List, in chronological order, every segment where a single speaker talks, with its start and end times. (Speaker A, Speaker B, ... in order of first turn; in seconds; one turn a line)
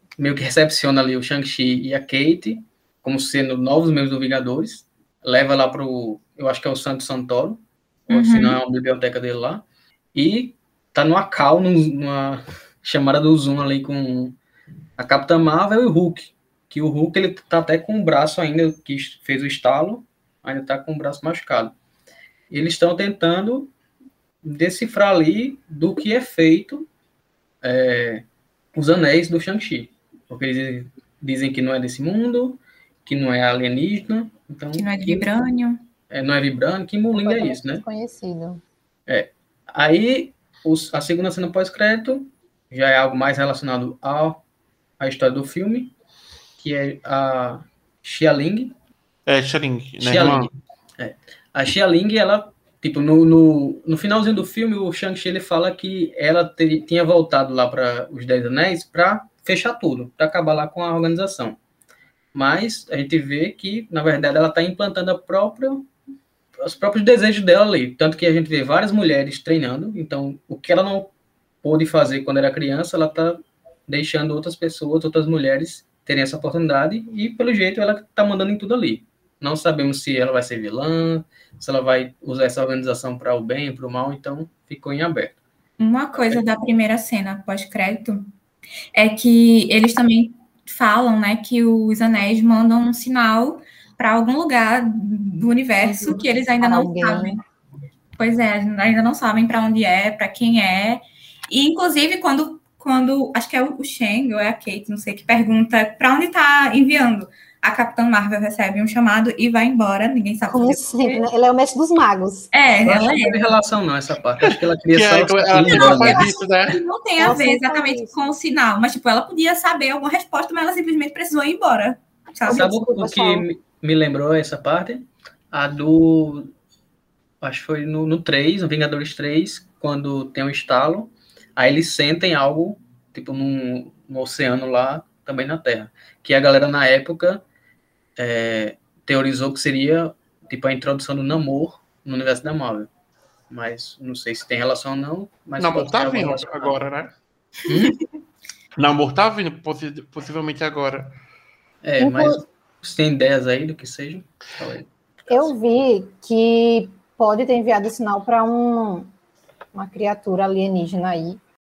Speaker A: 0.2-14.4
Speaker B: 8.1-8.6
Speaker A: 15.0-21.7
Speaker A: 22.5-23.7
Speaker A: 24.4-26.9
Speaker A: 27.6-35.3
Speaker B: 34.7-35.9
Speaker A: 36.1-37.8
Speaker C: 37.1-38.6
Speaker A: 39.1-44.4
Speaker A: 45.0-45.9
Speaker A: 46.6-48.7
Speaker D: 49.2-50.5
Speaker A: 50.0-61.6
Speaker A: 62.3-65.9
Speaker A: 66.6-71.1
Speaker A: 71.6-85.4
Speaker B: 85.8-88.3
Speaker B: 88.9-97.4
Speaker C: 95.8-97.4
Speaker B: 98.2-111.2
Speaker C: 110.5-112.5
Speaker B: 112.5-113.4
Speaker A: 112.8-116.2
Speaker D: 114.4-116.8
Speaker B: 115.7-122.7
Speaker C: 117.2-118.2
Speaker C: 122.5-123.5
Speaker A: 122.5-126.5
Speaker A: 127.4-137.4
Speaker A: 138.2-142.9
Speaker A: 143.5-146.8
Speaker D: 145.6-147.1
Speaker A: 147.7-148.0
Speaker D: 148.8-151.1
Speaker A: 151.8-155.5
Speaker C: 152.0-152.4
Speaker C: 155.3-159.1
Speaker C: 159.7-161.4